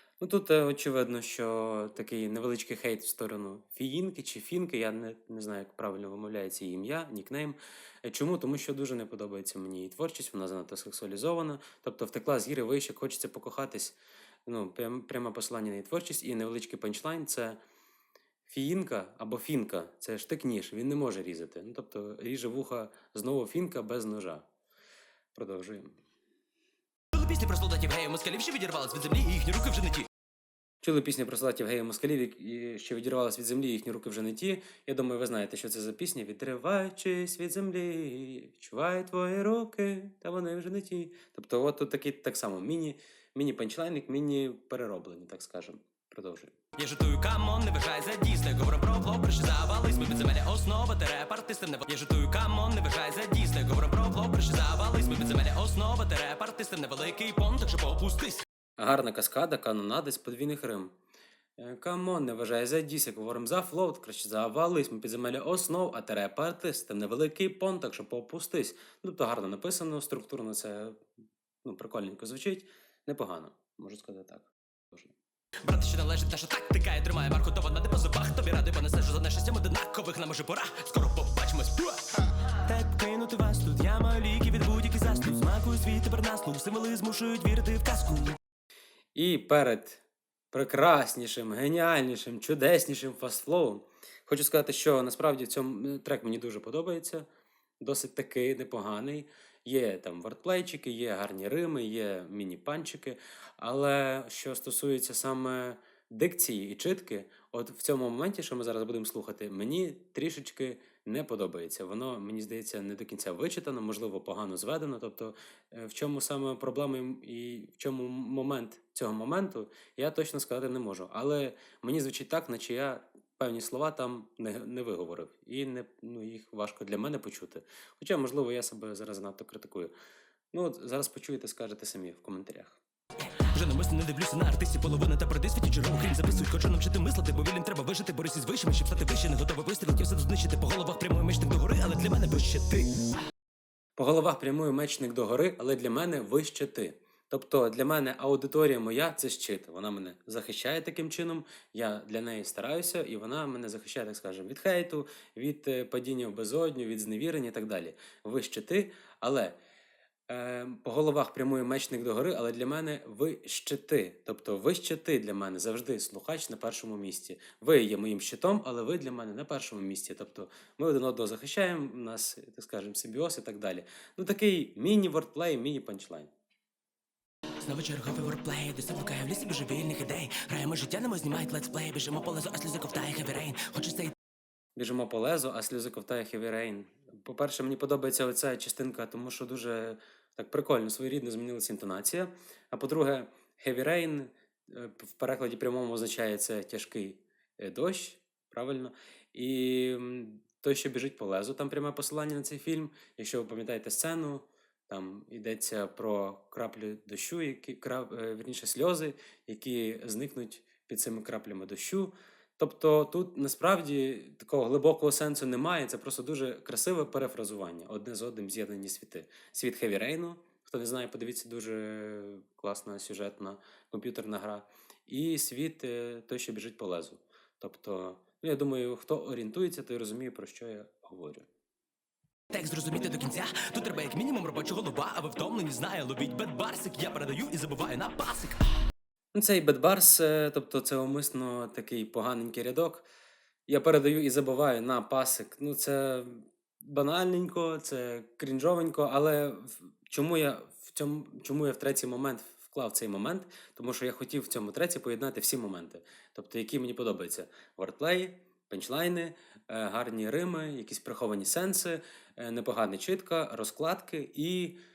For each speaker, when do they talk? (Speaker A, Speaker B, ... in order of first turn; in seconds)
Speaker A: 0.2-17.6, 18.4-24.4, 25.3-25.9, 30.8-46.5, 58.8-60.9, 61.6-71.0, 71.6-75.1, 89.1-97.2, 97.8-129.9, 130.5-132.8, 143.9-159.6, 160.3-176.3, 184.8-231.5, 239.3-243.1, 243.7-264.8
Speaker B: 27.1-30.1, 46.8-58.4, 75.6-88.4, 133.4-143.0, 177.6-184.1, 232.5-238.6